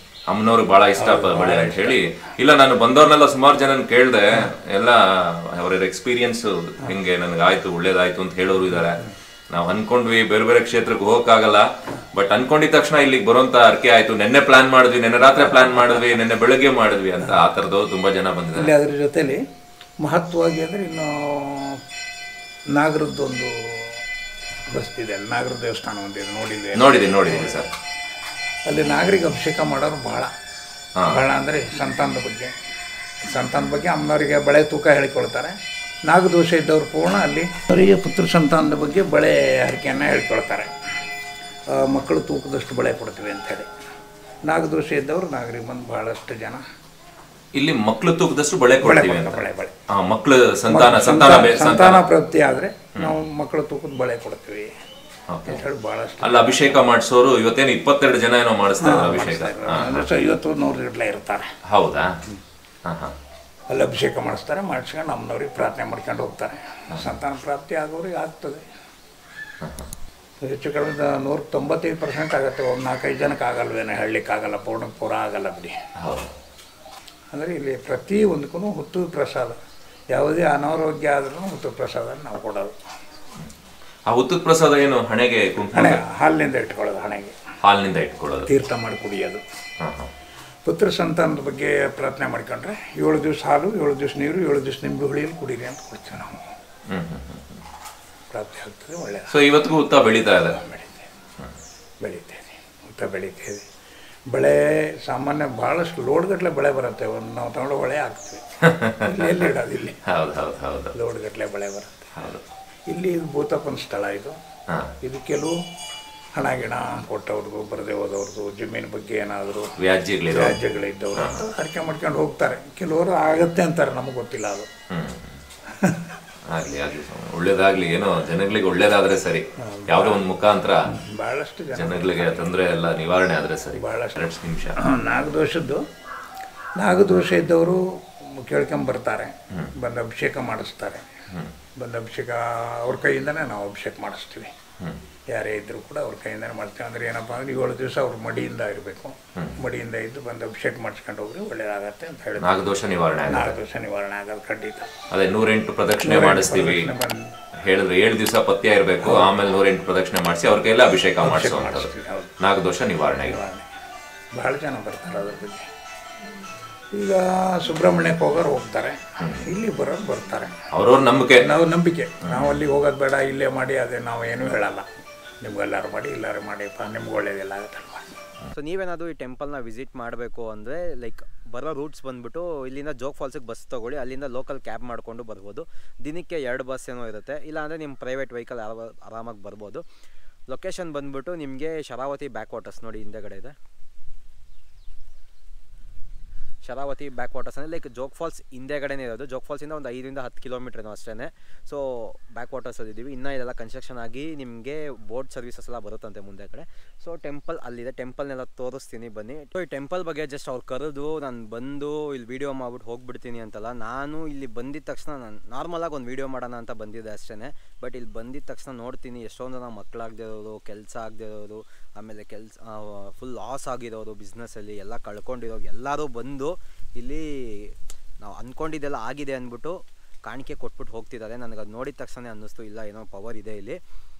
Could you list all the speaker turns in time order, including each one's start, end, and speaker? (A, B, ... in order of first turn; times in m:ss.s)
0:00.3-0:18.7 A
0:01.0-0:02.0 B
0:18.6-0:19.4 B
0:20.0-0:21.8 B
0:22.8-0:24.0 B
0:24.7-0:27.6 B
0:26.8-0:27.7 A
0:28.7-0:30.3 B
0:31.1-0:32.5 B
0:33.2-0:35.6 B
0:36.1-0:40.7 B
0:41.7-0:43.7 B
0:44.5-0:46.6 B
0:47.6-0:52.0 A
0:48.8-0:49.7 B
0:50.7-0:54.7 B
0:55.3-0:55.6 A
0:55.5-0:56.8 B
0:56.2-1:00.1 A
0:58.8-1:01.5 B
1:01.7-1:02.2 A
1:02.8-1:03.1 A
1:03.7-1:08.6 B
1:09.6-1:09.9 A
1:10.4-1:15.8 B
1:16.0-1:16.3 A
1:17.3-1:19.6 B
1:20.1-1:22.7 B
1:24.1-1:26.0 A
1:25.7-1:27.4 B
1:27.6-1:28.5 A
1:28.5-1:29.4 B
1:29.8-1:30.1 A
1:30.6-1:36.4 B
1:36.9-1:37.6 A
1:38.3-1:39.3 B
1:39.3-1:40.6 A
1:40.5-1:41.1 B
1:42.0-1:43.6 B
1:44.3-1:48.4 B
1:48.7-1:49.5 A
1:49.0-1:50.0 B
1:50.1-1:50.9 A
1:50.9-1:52.3 B
1:52.2-1:52.4 A
1:52.9-1:54.4 B
1:55.0-1:55.6 B
1:56.4-1:59.7 B
1:59.8-2:00.6 A
2:00.3-2:04.7 B
2:01.1-2:01.4 A
2:04.9-2:05.4 A
2:05.7-2:06.1 B
2:06.5-2:10.8 A
2:09.7-2:10.2 B
2:10.9-2:12.5 B
2:11.7-2:14.8 A
2:13.8-2:14.1 B
2:14.8-2:15.8 B
2:16.8-2:21.1 B
2:21.8-2:24.5 B
2:25.3-2:32.5 B
2:32.4-2:33.5 A
2:33.3-2:34.9 B
2:35.1-2:36.9 A
2:36.0-2:37.3 B
2:37.6-2:41.9 A
2:39.0-2:39.3 B
2:41.2-2:42.3 B
2:42.4-2:43.4 A
2:43.3-2:43.6 B
2:44.3-2:45.7 B
2:46.9-2:50.5 B
2:49.2-2:49.5 A
2:50.7-2:51.5 A
2:51.4-2:54.8 B
2:52.3-2:52.6 A
2:55.4-2:58.1 B
2:58.5-3:09.8 C
3:10.5-3:13.5 C
3:16.6-3:53.8 C